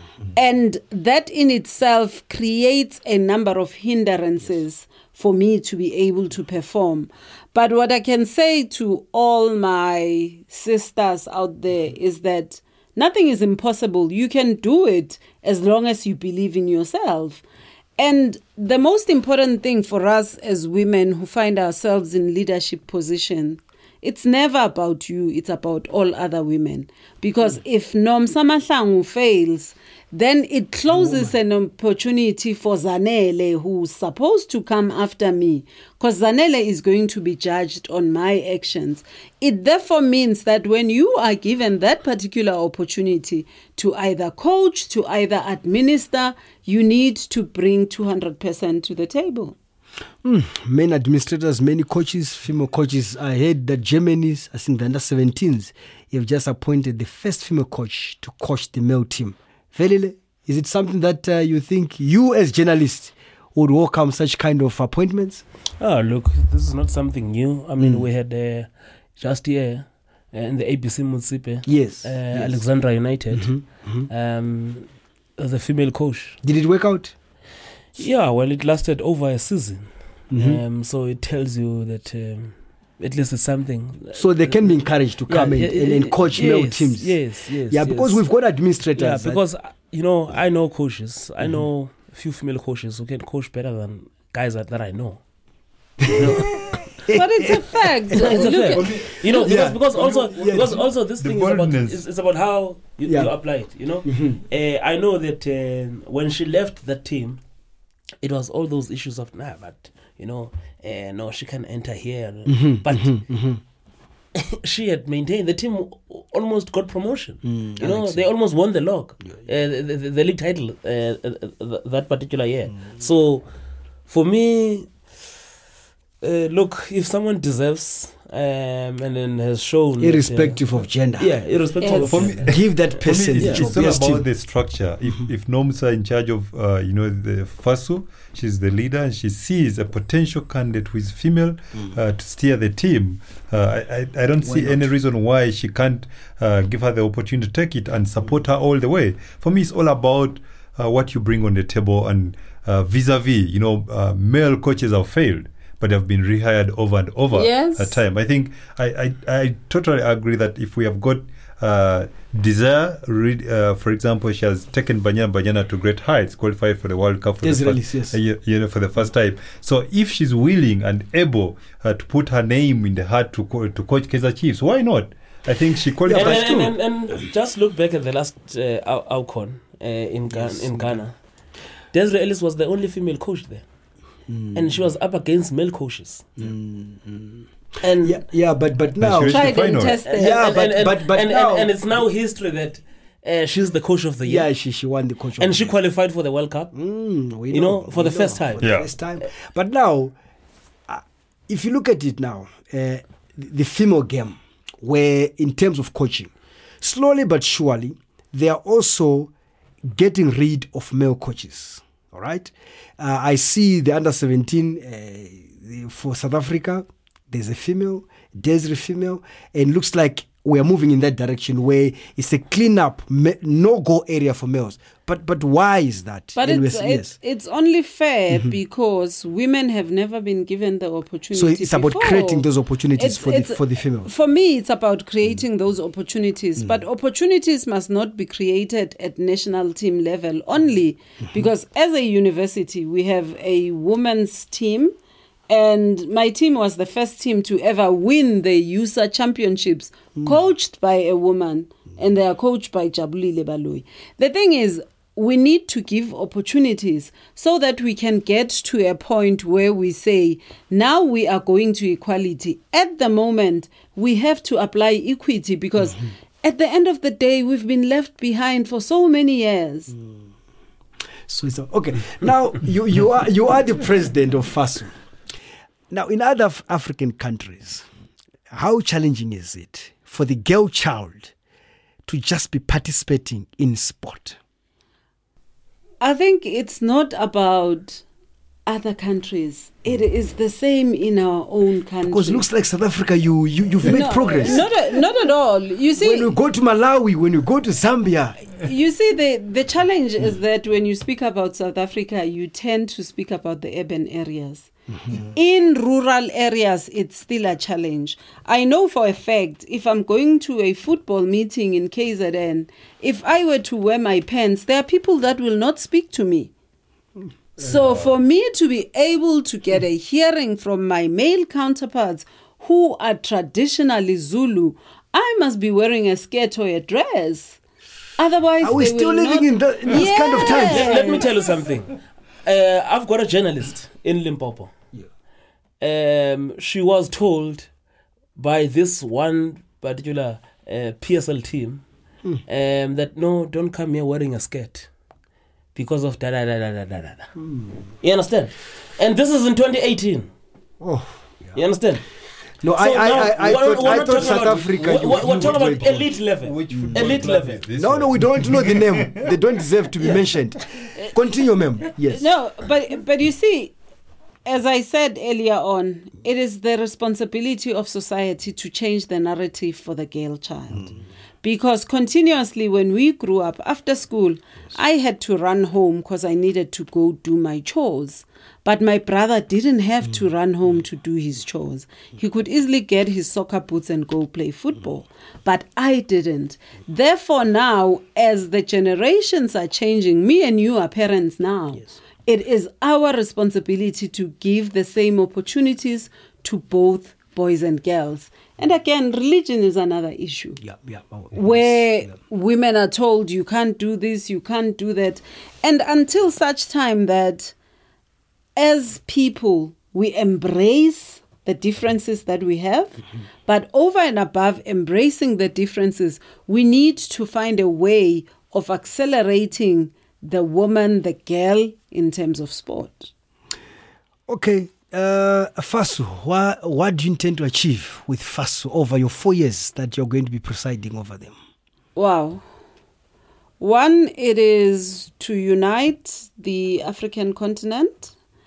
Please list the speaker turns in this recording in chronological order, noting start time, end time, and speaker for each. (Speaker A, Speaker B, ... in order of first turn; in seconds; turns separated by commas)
Speaker A: 0.3-17.4, Speaker A: 18.0-49.5, Speaker B: 30.9-31.3, Speaker B: 50.2-65.4, Speaker C: 65.8-76.4, Speaker B: 67.8-68.0, Speaker B: 71.7-72.6, Speaker B: 73.3-74.1, Speaker B: 76.4-77.1, Speaker C: 78.0-88.2, Speaker B: 80.3-80.6, Speaker B: 84.1-89.4, Speaker C: 89.0-95.2, Speaker B: 96.0-98.5, Speaker C: 96.1-96.5, Speaker A: 97.1-98.8, Speaker C: 98.1-107.4, Speaker D: 98.7-102.0, Speaker B: 99.2-100.8, Speaker B: 103.0-103.3, Speaker B: 104.0-104.4, Speaker C: 108.2-113.2, Speaker B: 112.5-113.6, Speaker C: 114.3-123.5, Speaker B: 117.4-118.3, Speaker C: 124.1-124.9, Speaker C: 126.2-130.6, Speaker B: 130.0-131.3, Speaker C: 131.2-133.7, Speaker A: 131.8-132.3, Speaker D: 132.0-176.7, Speaker B: 132.2-134.2, Speaker B: 144.4-144.9, Speaker A: 157.3-158.0, Speaker B: 167.4-168.2, Speaker B: 176.0-176.7, Speaker C: 176.1-181.1, Speaker B: 180.3-181.0, Speaker C: 181.9-183.6, Speaker B: 184.3-184.7, Speaker C: 184.5-186.3, Speaker B: 186.4-187.5, Speaker C: 187.8-188.2, Speaker B: 188.0-189.6, Speaker D: 189.0-190.0, Speaker A: 189.2-190.4, Speaker C: 190.0-194.5, Speaker B: 190.1-191.8, Speaker B: 194.2-195.7, Speaker C: 195.4-196.7, Speaker B: 196.7-200.1, Speaker C: 197.5-198.8, Speaker D: 198.6-198.8, Speaker B: 200.9-209.3, Speaker B: 209.8-227.2, Speaker A: 226.3-244.9, Speaker B: 228.3-228.6, Speaker B: 231.3-234.1, Speaker A: 245.5-269.9, Speaker B: 271.3-274.9, Speaker B: 275.9-277.9, Speaker B: 278.5-281.3, Speaker B: 282.1-284.4, Speaker A: 286.0-288.0, Speaker A: 288.6-292.4, Speaker B: 292.0-294.7, Speaker A: 293.8-296.3, Speaker B: 296.0-298.4, Speaker A: 298.6-316.5, Speaker A: 317.6-327.6, Speaker A: 328.2-331.3, Speaker B: 328.6-331.2, Speaker C: 330.4-334.7, Speaker C: 335.8-337.7, Speaker C: 338.4-341.8, Speaker C: 342.5-344.9, Speaker C: 345.7-347.3, Speaker B: 347.4-347.9, Speaker C: 348.0-350.3, Speaker B: 350.8-351.6, Speaker C: 351.5-352.0, Speaker B: 352.6-356.1, Speaker C: 352.8-357.7, Speaker D: 354.8-359.4, Speaker B: 356.7-362.3, Speaker A: 362.1-363.7, Speaker A: 364.4-400.6, Speaker B: 400.6-402.1, Speaker A: 401.3-407.5, Speaker A: 408.6-423.1, Speaker B: 424.3-431.3, Speaker A: 431.9-432.4, Speaker A: 433.6-438.1